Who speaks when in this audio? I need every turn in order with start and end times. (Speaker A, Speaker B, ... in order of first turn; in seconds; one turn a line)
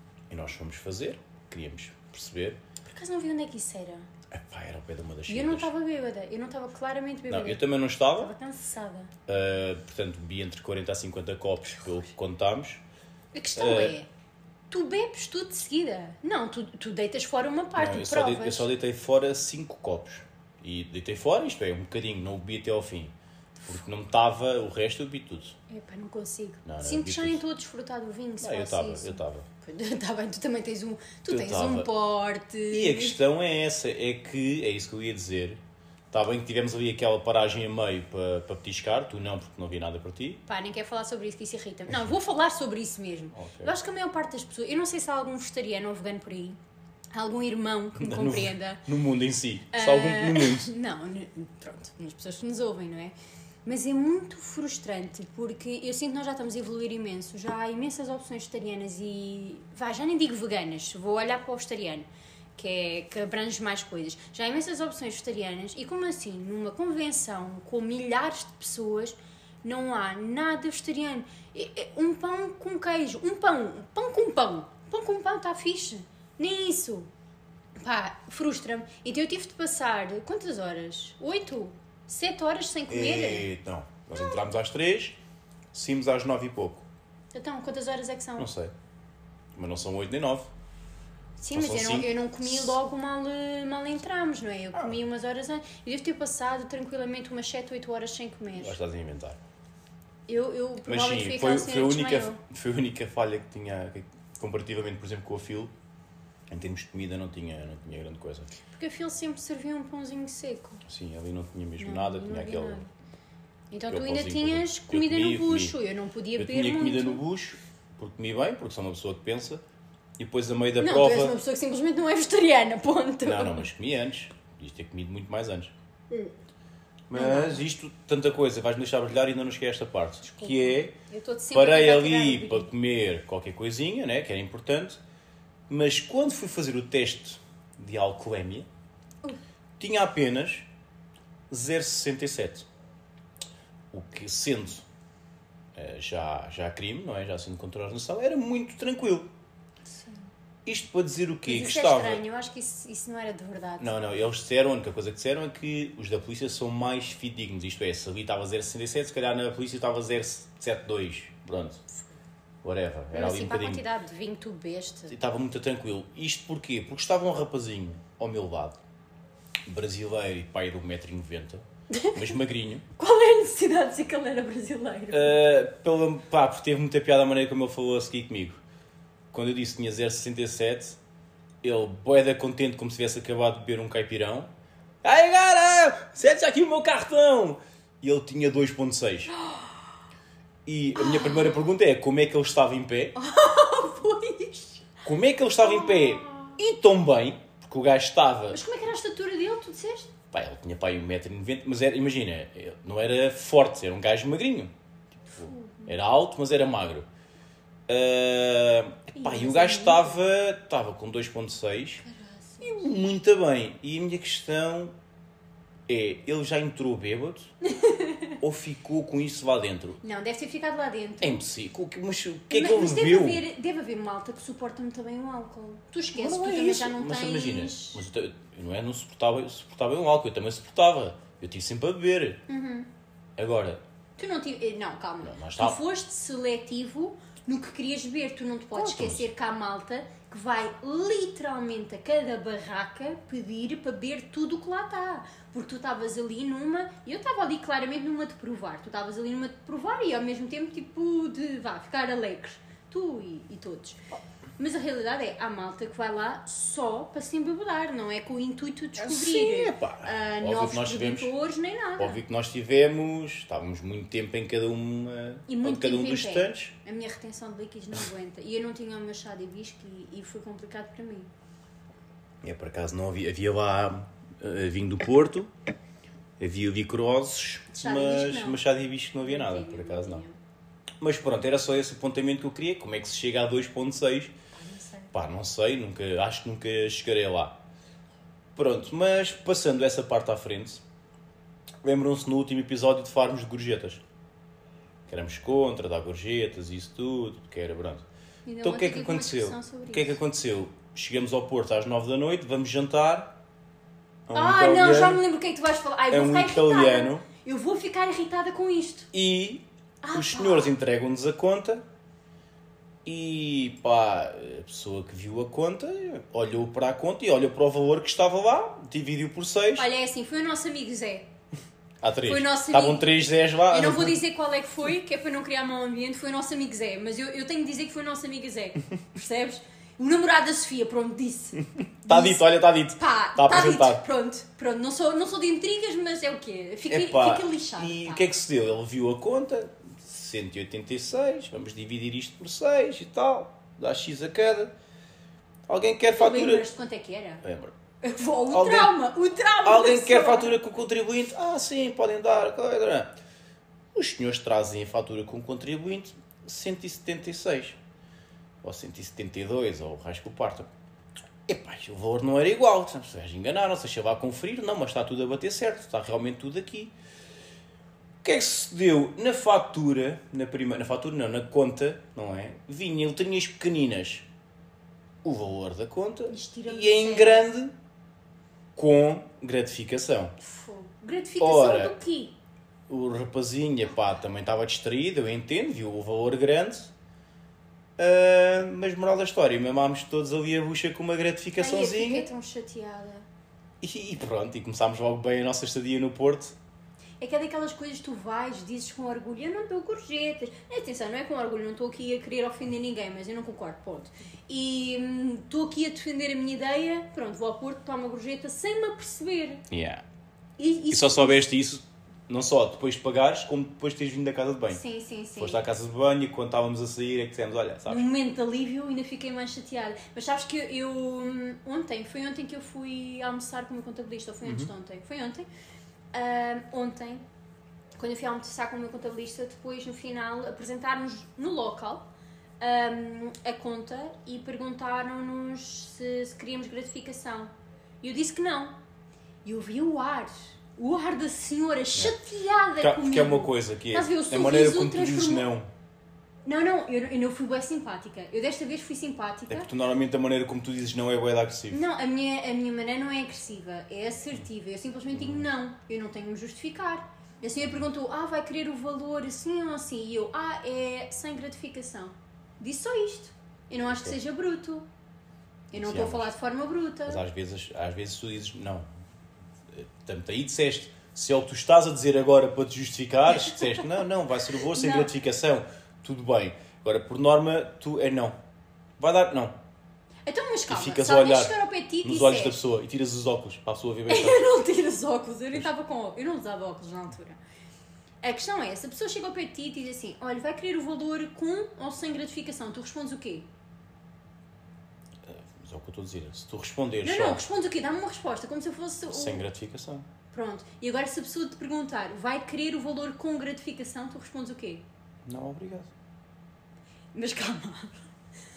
Speaker A: 0.3-2.6
Speaker B: 2.9-4.1
Speaker A: 4.3-5.7
Speaker B: 5.3-7.6
Speaker A: 7.3-8.3
Speaker B: 8.1-9.1
Speaker A: 9.3-12.8
Speaker B: 13.3-14.1
Speaker A: 13.6-13.9
Speaker B: 14.7-18.7
Speaker A: 17.8-25.6
Speaker B: 25.7-33.2
Speaker A: 26.6-27.4
Speaker A: 28.4-29.5
Speaker A: 31.2-31.9
Speaker A: 32.7-35.6
Speaker A: 36.1-40.4
Speaker B: 40.5-46.6
Speaker A: 41.9-42.1
Speaker A: 43.3-43.7
Speaker B: 47.1-48.8
Speaker A: 48.0-50.7
Speaker B: 49.7-53.1
Speaker B: 53.6-77.1
Speaker B: 77.8-83.5
Speaker A: 82.9-85.2
Speaker A: 85.7-86.8
Speaker B: 87.3-88.5
Speaker A: 88.4-88.7
Speaker A: 89.5-90.5
Speaker B: 91.4-98.8
Speaker A: 91.5-92.8
Speaker A: 98.5-99.4
Speaker B: 100.3-102.4
Speaker A: 100.8-105.7
Speaker A: 106.5-108.5
Speaker B: 108.7-110.8
Speaker A: 110.8-112.8
Speaker B: 111.8-112.9
Speaker B: 113.7-117.2
Speaker A: 113.9-115.8
Speaker A: 116.3-119.6
Speaker A: 120.2-121.3
Speaker B: 120.8-123.7
Speaker A: 123.2-125.7
Speaker A: 127.1-130.9
Speaker B: 127.1-127.7
Speaker B: 130.2-132.7
Speaker A: 131.5-135.0
Speaker A: 135.7-138.7
Speaker A: 139.8-140.7
Speaker A: 141.5-142.7
Speaker A: 143.9-144.8
Speaker A: 145.7-149.3
Speaker B: 149.9-150.2
Speaker A: 150.7-152.2
Speaker B: 151.4-154.0
Speaker A: 153.8-161.8
Speaker A: 162.6-163.8
Speaker B: 163.1-165.1
Speaker A: 165.1-168.8
Speaker A: 169.7-172.8
Speaker B: 171.9-172.2
Speaker B: 173.0-175.4
Speaker A: 175.1-178.6
Speaker A: 179.3-181.0
Speaker A: 181.6-184.5
Speaker A: 185.0-189.3
Speaker A: 190.6-193.1
Speaker B: 190.9-191.6
Speaker B: 193.1-194.9
Speaker A: 195.0-198.6
Speaker B: 195.6-196.6
Speaker B: 198.5-200.1
Speaker A: 200.3-204.7
Speaker B: 205.3-205.9
Speaker A: 205.4-207.1
Speaker A: 207.9-212.0
Speaker B: 209.2-210.2
Speaker B: 212.0-212.9
Speaker A: 212.6-214.9
Speaker A: 215.9-217.5
Speaker B: 217.7-218.3
Speaker A: 218.4-220.0
Speaker B: 220.0-221.4
Speaker A: 221.2-223.4
Speaker B: 222.5-228.0
Speaker A: 226.1-232.4
Speaker B: 232.5-232.9
Speaker A: 233.4-233.8
Speaker B: 234.2-254.0
Speaker A: 235.2-235.8
Speaker A: 238.7-239.3
Speaker B: 254.6-262.2
Speaker A: 259.0-261.3
Speaker A: 262.0-266.7
Speaker B: 265.5-271.3
Speaker A: 272.4-275.5
Speaker A: 276.4-280.2
Speaker B: 277.7-278.6
Speaker B: 279.2-280.4
Speaker A: 281.0-284.3
Speaker B: 284.5-285.1
Speaker A: 285.1-287.6
Speaker A: 288.5-290.8
Speaker A: 291.8-294.0
Speaker A: 295.1-298.0
Speaker B: 298.4-300.2
Speaker A: 298.6-303.4
Speaker A: 304.3-305.2
Speaker B: 304.3-309.1
Speaker A: 306.1-307.2
Speaker A: 309.1-311.8
Speaker B: 310.0-310.8
Speaker A: 313.0-319.9
Speaker B: 319.8-321.3
Speaker A: 322.0-324.2
Speaker B: 322.2-338.2
Speaker A: 332.1-334.0
Speaker A: 336.9-344.7
Speaker A: 345.7-346.7
Speaker B: 346.1-347.4
Speaker A: 347.4-347.7
Speaker B: 348.0-350.6
Speaker A: 348.5-349.0
Speaker A: 349.6-353.1
Speaker A: 353.9-357.8
Speaker A: 358.6-360.7
Speaker A: 361.5-366.9
Speaker A: 368.2-374.2
Speaker A: 375.2-377.7
Speaker B: 376.3-377.5
Speaker A: 378.7-380.4
Speaker B: 380.4-382.4
Speaker A: 381.4-381.9
Speaker A: 382.9-386.9
Speaker A: 388.0-392.3
Speaker B: 391.6-393.2
Speaker A: 393.8-396.6
Speaker B: 397.2-409.6
Speaker A: 409.7-410.0
Speaker B: 410.6-411.5
Speaker A: 410.9-414.8
Speaker B: 414.7-415.6
Speaker A: 415.4-418.1
Speaker B: 417.9-425.5
Speaker A: 424.4-424.7
Speaker B: 426.1-427.2
Speaker B: 428.0-432.1
Speaker B: 432.6-438.8
Speaker B: 439.4-445.5
Speaker A: 442.8-445.7
Speaker B: 446.4-449.7
Speaker A: 449.5-451.8
Speaker B: 451.7-464.9
Speaker A: 455.1-455.5
Speaker A: 463.9-464.2
Speaker B: 465.7-467.2
Speaker A: 465.7-466.3
Speaker A: 467.1-468.8
Speaker A: 469.7-478.4
Speaker B: 474.7-475.1
Speaker A: 479.0-479.5
Speaker B: 480.2-482.6
Speaker A: 480.7-484.5
Speaker B: 484.1-487.4
Speaker B: 488.2-493.5
Speaker A: 495.2-497.4
Speaker B: 497.0-499.4
Speaker A: 499.1-500.1
Speaker B: 500.3-504.8
Speaker A: 505.2-505.9
Speaker B: 507.1-508.0